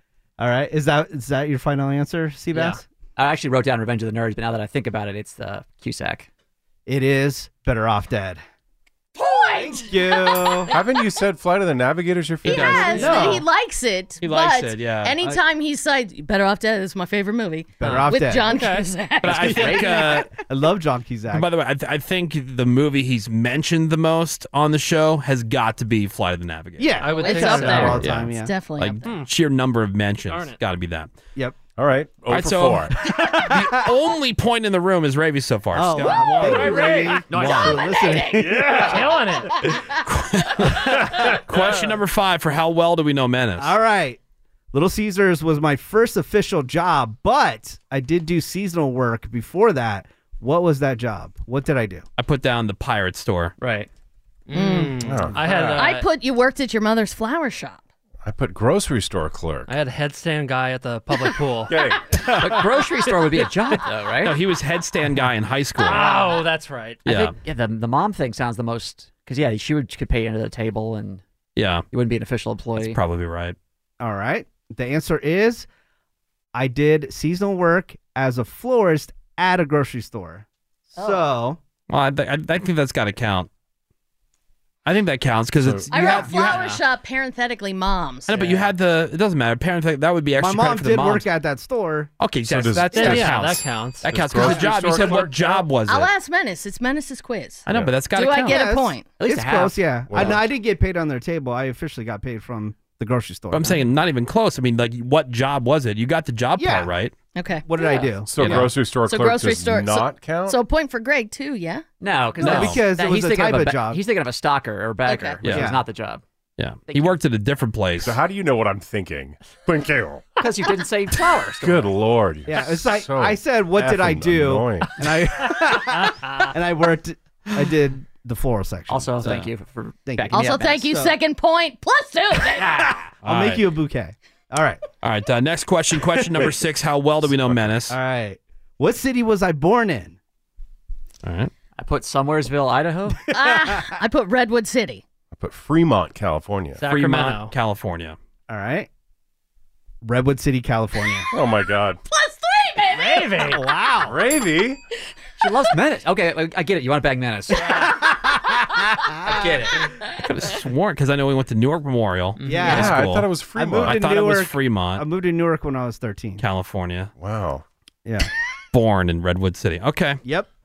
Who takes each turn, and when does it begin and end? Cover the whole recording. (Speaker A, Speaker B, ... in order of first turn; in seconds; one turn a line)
Speaker A: 0.4-2.8
Speaker B: 3.2-6.3
Speaker A: 6.9-8.4
Speaker C: 9.2-10.7
Speaker A: 9.5-10.7
Speaker D: 10.7-13.3
Speaker E: 12.4-13.3
Speaker C: 12.4-20.1
Speaker A: 12.9-13.4
Speaker E: 14.2-15.2
Speaker A: 17.8-18.6
Speaker F: 17.8-18.9
Speaker E: 19.2-20.3
Speaker B: 19.4-20.3
Speaker A: 19.6-21.5
Speaker E: 21.3-31.1
Speaker A: 26.8-28.5
Speaker F: 27.0-28.1
Speaker C: 27.1-29.0
Speaker F: 29.0-29.3
Speaker F: 30.3-30.6
Speaker D: 31.8-32.9
Speaker E: 32.3-37.8
Speaker A: 33.1-33.8
Speaker A: 35.7-39.2
Speaker F: 36.4-37.4
Speaker C: 36.6-38.8
Speaker D: 38.5-39.0
Speaker F: 38.8-39.5
Speaker C: 39.6-39.9
Speaker E: 40.1-40.9
Speaker A: 40.9-41.3
Speaker E: 41.5-43.8
Speaker A: 43.6-44.2
Speaker A: 44.7-52.0
Speaker E: 52.2-53.5
Speaker F: 53.6-53.9
Speaker F: 54.5-56.1
Speaker C: 54.5-55.0
Speaker D: 55.0-55.8
Speaker C: 55.7-57.8
Speaker D: 58.2-59.7
Speaker F: 59.7-61.8
Speaker D: 61.7-62.1
Speaker B: 62.4-64.4
Speaker E: 64.2-66.2
Speaker F: 65.8-67.0
Speaker E: 67.0-67.3
Speaker B: 67.1-71.2
Speaker E: 71.6-71.8
Speaker B: 71.9-73.0
Speaker E: 72.8-73.6
Speaker A: 74.0-75.7
Speaker A: 76.5-81.6
Speaker C: 81.0-81.2
Speaker E: 81.9-83.5
Speaker E: 84.8-86.8
Speaker D: 85.6-85.9
Speaker C: 85.9-88.6
Speaker E: 88.3-91.3
Speaker A: 90.4-92.1
Speaker E: 92.2-96.1
Speaker D: 92.5-93.4
Speaker F: 92.9-95.2
Speaker D: 94.1-95.6
Speaker C: 95.9-99.1
Speaker E: 97.7-98.6
Speaker A: 98.5-103.8
Speaker B: 99.2-100.4
Speaker D: 100.1-100.4
Speaker E: 103.5-107.1
Speaker A: 106.6-106.9
Speaker C: 107.4-108.0
Speaker A: 107.7-108.7
Speaker D: 108.3-110.6
Speaker E: 108.4-108.7
Speaker C: 109.0-111.8
Speaker B: 112.0-116.2
Speaker A: 112.4-114.0
Speaker E: 112.4-112.8
Speaker C: 115.0-115.4
Speaker E: 115.4-115.7
Speaker A: 115.4-115.8
Speaker E: 116.6-118.2
Speaker B: 116.9-117.2
Speaker D: 118.0-120.3
Speaker B: 120.4-121.9
Speaker D: 121.6-124.9
Speaker A: 122.5-129.4
Speaker F: 126.1-126.5
Speaker B: 128.9-130.9
Speaker E: 129.2-129.5
Speaker A: 130.1-131.2
Speaker C: 130.3-132.9
Speaker B: 132.6-132.9
Speaker A: 132.6-134.8
Speaker E: 133.2-133.7
Speaker E: 135.0-137.9
Speaker D: 137.3-137.7
Speaker A: 137.9-140.2
Speaker E: 141.2-141.5
Speaker B: 141.8-143.2
Speaker C: 143.3-145.0
Speaker A: 143.3-143.9
Speaker D: 145.3-146.8
Speaker F: 146.8-147.5
Speaker E: 146.9-148.2
Speaker A: 148.5-148.9
Speaker A: 150.0-151.3
Speaker D: 151.3-152.0
Speaker C: 152.1-153.4
Speaker F: 153.3-153.5
Speaker A: 153.3-154.2
Speaker D: 154.0-154.8
Speaker B: 155.4-158.1
Speaker A: 157.6-159.7
Speaker B: 159.2-159.9
Speaker E: 160.2-163.3
Speaker A: 162.4-166.4
Speaker D: 162.7-164.0
Speaker E: 163.8-165.0
Speaker E: 166.4-167.1
Speaker D: 167.2-167.6
Speaker E: 168.7-170.2
Speaker A: 170.2-170.5